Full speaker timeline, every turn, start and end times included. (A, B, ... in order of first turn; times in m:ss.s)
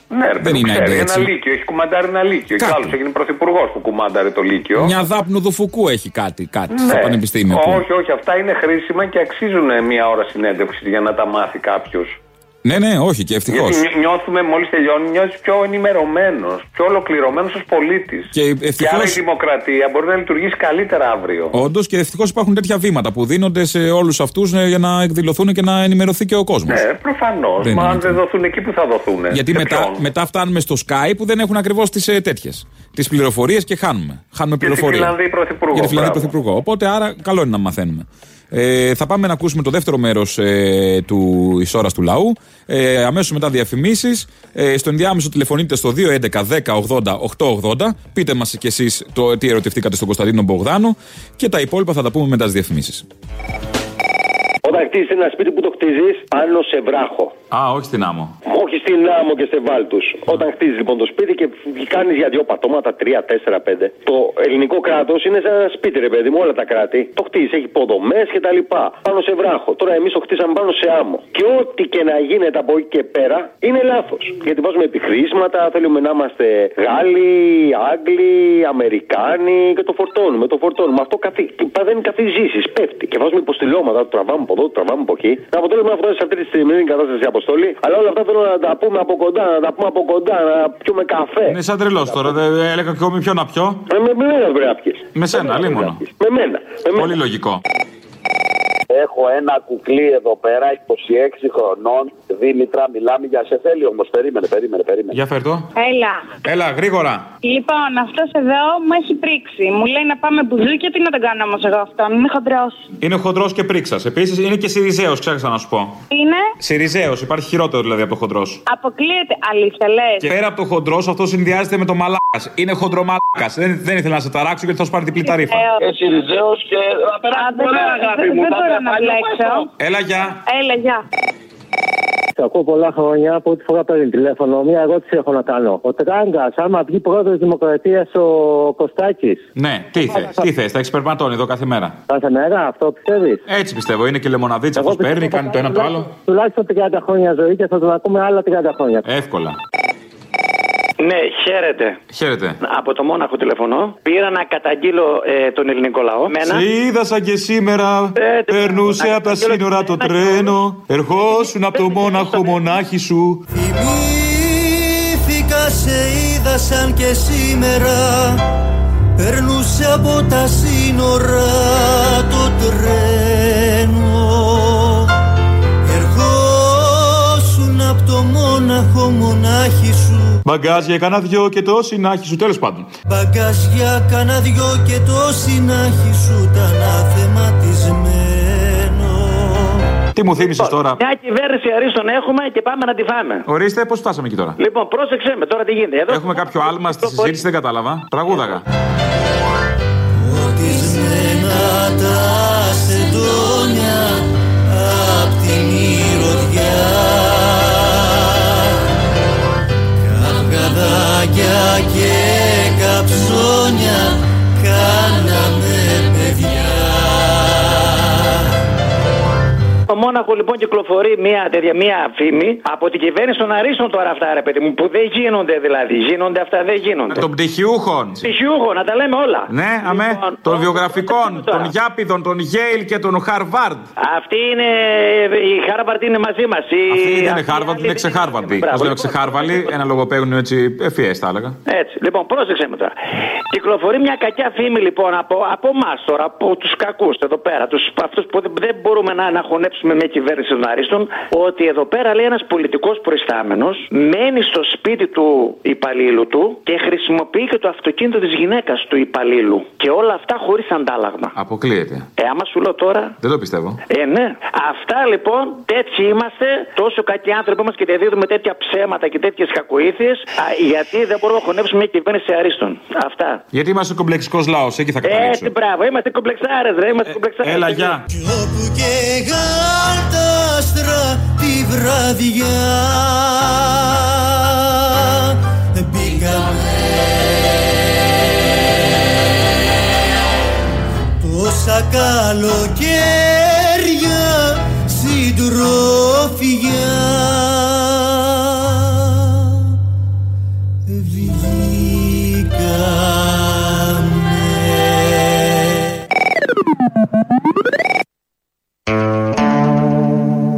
0:00.1-0:05.0 A
0:00.4-0:01.3 B
0:02.6-0:03.0 B
0:04.8-0:07.8 B
0:06.7-0:12.2 A
0:12.6-0:13.8 B
0:13.5-0:21.6 A
0:18.3-0:19.2 B
0:21.5-0:26.8 B
0:26.7-0:30.0 A
0:27.6-0:28.2 B
0:29.3-0:35.1 B
0:34.6-0:36.3 A
0:35.7-0:53.0 B
0:54.6-0:57.3 C
0:57.5-0:58.4 B
0:58.5-1:31.6 C
1:31.5-1:33.8 B
1:33.9-1:37.1 C
1:35.2-1:36.0 B
1:36.9-1:37.6 B
1:38.9-1:45.1 D
1:45.1-1:45.7 B
1:45.8-1:46.4 E
1:46.4-1:47.3 B
1:47.4-1:52.9 E
1:53.0-1:56.0 B
1:56.1-1:56.5 E
1:56.6-1:58.6 B
1:58.7-2:00.3 E
2:00.2-2:05.7 B
2:05.2-2:05.8 E
2:05.8-2:09.5 D
2:07.3-2:09.7 E
2:09.8-2:10.4 B
2:10.5-2:11.0 E
2:12.4-2:19.5 F
2:19.6-2:22.0 B
2:22.1-2:23.4 F
2:23.5-2:26.1 B
2:24.8-2:29.0 F
2:29.0-2:29.6 B
2:31.0-2:32.0 G
2:32.1-2:32.6 B
2:32.6-2:36.6 G
2:36.4-2:43.4 B
2:38.2-2:40.6 G
2:41.3-2:42.6 G
2:43.7-2:48.4 H
2:49.2-2:54.8 H
2:55.9-3:00.2 H
3:00.4-3:02.9 B
3:03.1-3:09.3 H
3:10.2-3:11.0 B
3:10.4-3:13.5 G
3:13.5-3:14.6 B
3:14.6-3:17.4 G
3:16.1-3:18.6 B
3:20.3-3:24.2 H
3:24.9-3:27.7 H
3:30.0-3:37.3 H
3:39.9-3:47.3 G
3:47.1-3:48.2 B
3:48.2-3:51.7 G
3:49.5-3:53.9 B
3:54.0-3:59.6 G
3:56.9-4:01.6 B
4:01.7-4:03.0 G
4:03.5-4:21.3 G
4:21.4-4:22.1 B
4:22.2-4:23.2 G
4:23.2-4:23.8 B
4:23.9-4:33.4 G
4:33.5-4:35.5 B
4:35.0-4:38.0 G
4:37.1-4:38.0 B
4:38.3-4:43.7 H
4:45.9-4:47.6 H
4:51.2-4:57.8 H
5:00.9-5:04.3 H